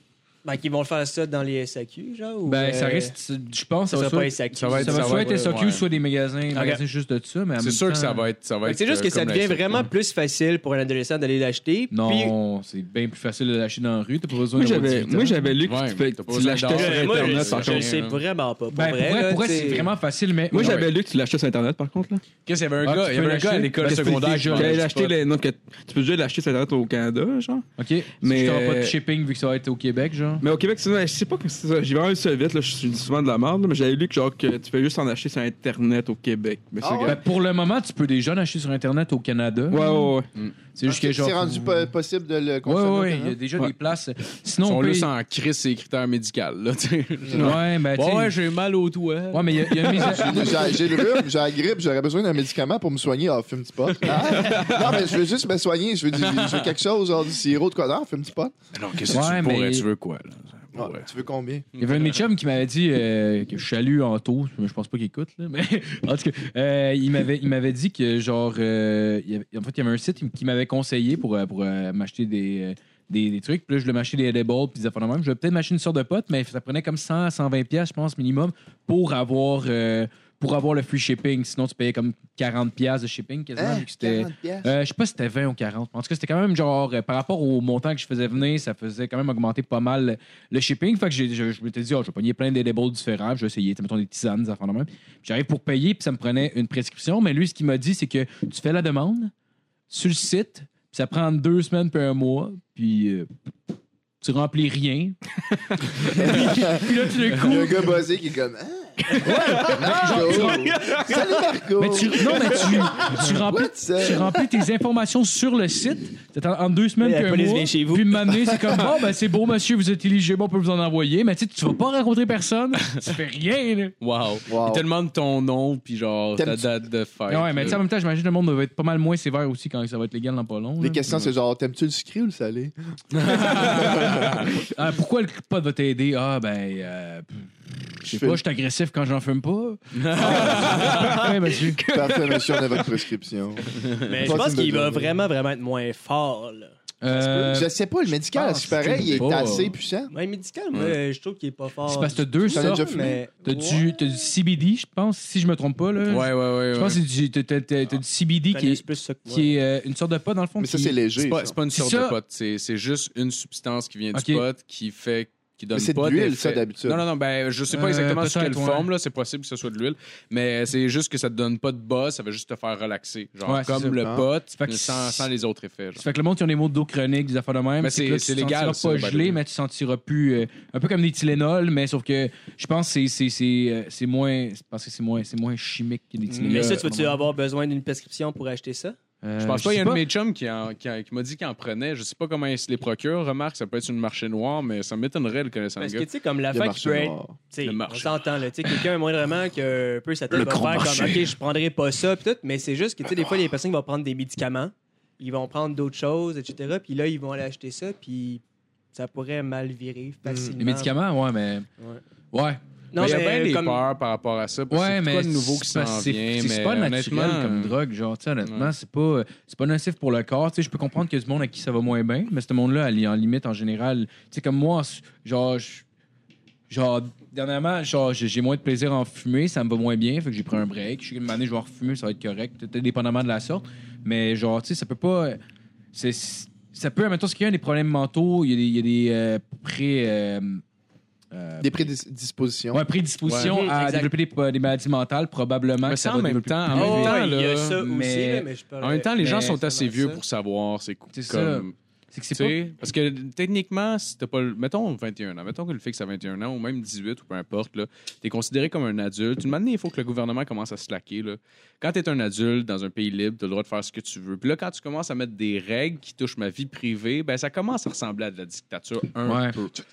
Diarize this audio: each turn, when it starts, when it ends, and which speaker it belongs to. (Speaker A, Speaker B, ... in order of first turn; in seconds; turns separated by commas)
Speaker A: 0.4-3.1, Speaker B: 2.5-8.3, Speaker A: 3.9-5.5, Speaker C: 4.5-5.8, Speaker A: 6.5-6.8, Speaker C: 7.6-9.9, Speaker A: 8.6-12.3, Speaker B: 11.9-15.6, Speaker D: 14.6-17.9, Speaker C: 15.6-18.2, Speaker A: 16.7-19.9, Speaker B: 18.7-20.9, Speaker D: 20.5-22.2, Speaker C: 22.4-25.2, Speaker B: 22.8-24.8, Speaker D: 23.8-27.7, Speaker B: 27.8-30.4, Speaker D: 28.2-29.0, Speaker D: 30.4-37.2, Speaker E: 36.8-37.2, Speaker B: 37.0-40.1, Speaker D: 39.7-40.3, Speaker B: 40.7-41.9, Speaker E: 40.8-43.4, Speaker B: 42.6-45.1, Speaker C: 44.6-50.8, Speaker E: 47.2-47.6, Speaker B: 47.3-48.3, Speaker B: 49.3-50.5, Speaker E: 49.9-58.5, Speaker C: 56.2-56.7, Speaker C: 58.7-61.1, Speaker B: 59.1-59.9, Speaker E: 60.7-61.6, Speaker C: 61.7-62.2, Speaker B: 61.8-99.3, Speaker E: 83.5-84.7, Speaker B: 99.9-103.3, Speaker B: 104.2-107.9, Speaker E: 106.1-114.4, Speaker B: 109.2-110.7, Speaker A: 109.3-111.4, Speaker D: 109.3-109.6, Speaker B: 111.8-123.9, Speaker A: 117.0-118.5, Speaker C: 124.0-127.8, Speaker E: 124.5-124.8, Speaker E: 126.3-126.6, Speaker B: 127.3-131.0, Speaker E: 130.8-132.7, Speaker C: 133.2-134.4, Speaker B: 133.2-137.5, Speaker E: 133.3-134.4, Speaker B: 138.0-142.2, Speaker E: 138.0-138.4, Speaker C: 139.9-141.2, Speaker E: 140.3-140.8, Speaker E: 141.9-145.2, Speaker C: 143.8-144.1, Speaker A: 144.0-147.6, Speaker B: 147.0-149.7, Speaker E: 147.5-150.1, Speaker A: 150.1-154.1, Speaker C: 150.7-151.0, Speaker B: 151.9-161.0, Speaker E: 152.5-153.2, Speaker C: 156.1-157.0, Speaker A: 158.5-159.5, Speaker E: 160.6-161.6, Speaker C: 161.2-176.0, Speaker B: 161.7-162.2, Speaker B: 164.1-164.4, Speaker E: 165.7-167.0, Speaker B: 167.7-168.9, Speaker B: 173.4-174.0, Speaker E: 174.0-174.2, Speaker B: 174.5-175.3, Speaker B: 175.9-187.2, Speaker C: 177.8-179.4, Speaker A: 186.3-189.0, Speaker B: 189.2-190.0, Speaker C: 189.4-196.1, Speaker A: 195.8-208.4, Speaker E: 196.5-197.3, Speaker C: 197.6-198.2, Speaker B: 200.3-201.3, Speaker A: 208.9-210.9, Speaker E: 210.2-210.5, Speaker B: 210.6-211.7, Speaker B: 212.3-212.6, Speaker A: 212.9-213.8, Speaker C: 212.9-217.7, Speaker B: 214.7-225.8, Speaker C: 218.4-218.7, Speaker B: 226.7-235.4, Speaker B: 235.9-240.6, Speaker B: 241.3-241.9, Speaker E: 241.6-242.8, Speaker B: 242.7-247.2, Speaker C: 243.2-243.5, Speaker A: 243.4-244.1, Speaker C: 245.8-247.8, Speaker A: 246.7-250.2, Speaker B: 247.8-248.5, Speaker C: 248.8-251.7, Speaker B: 249.2-249.6, Speaker B: 251.1-252.6, Speaker C: 252.3-269.7, Speaker B: 269.2-269.6